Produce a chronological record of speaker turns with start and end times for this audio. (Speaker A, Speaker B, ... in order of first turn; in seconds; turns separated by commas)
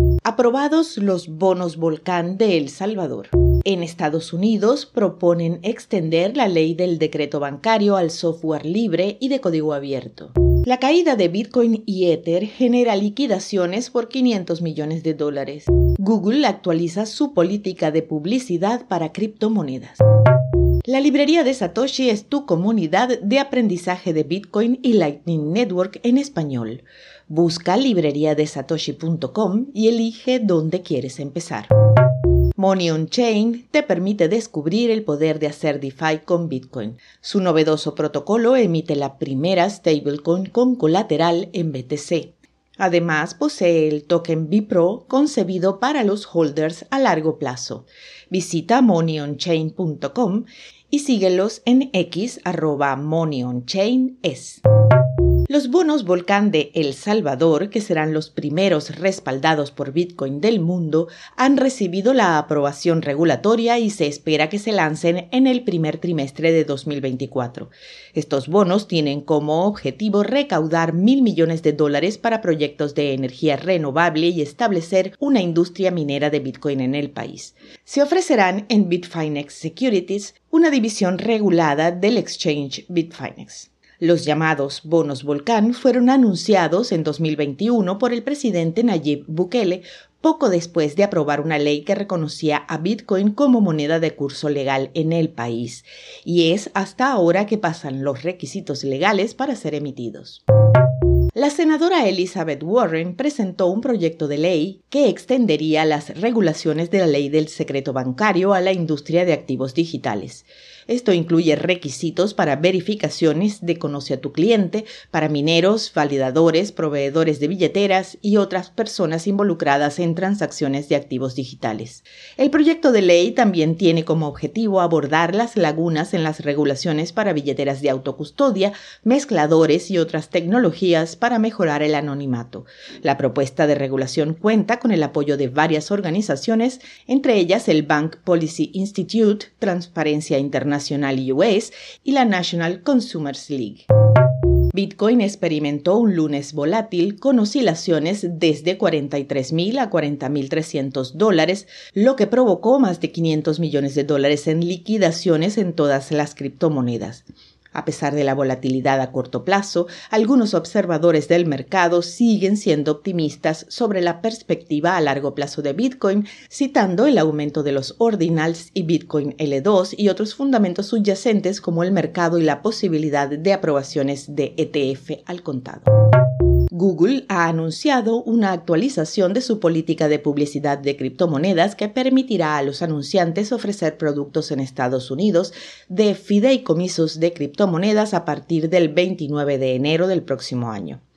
Speaker A: 0.2-20.0, Speaker A: 20.9-31.7, Speaker A: 32.6-54.6, Speaker A: 55.5-100.4, Speaker A: 101.3-143.8, Speaker A: 144.7-175.9, Speaker A: 176.7-191.0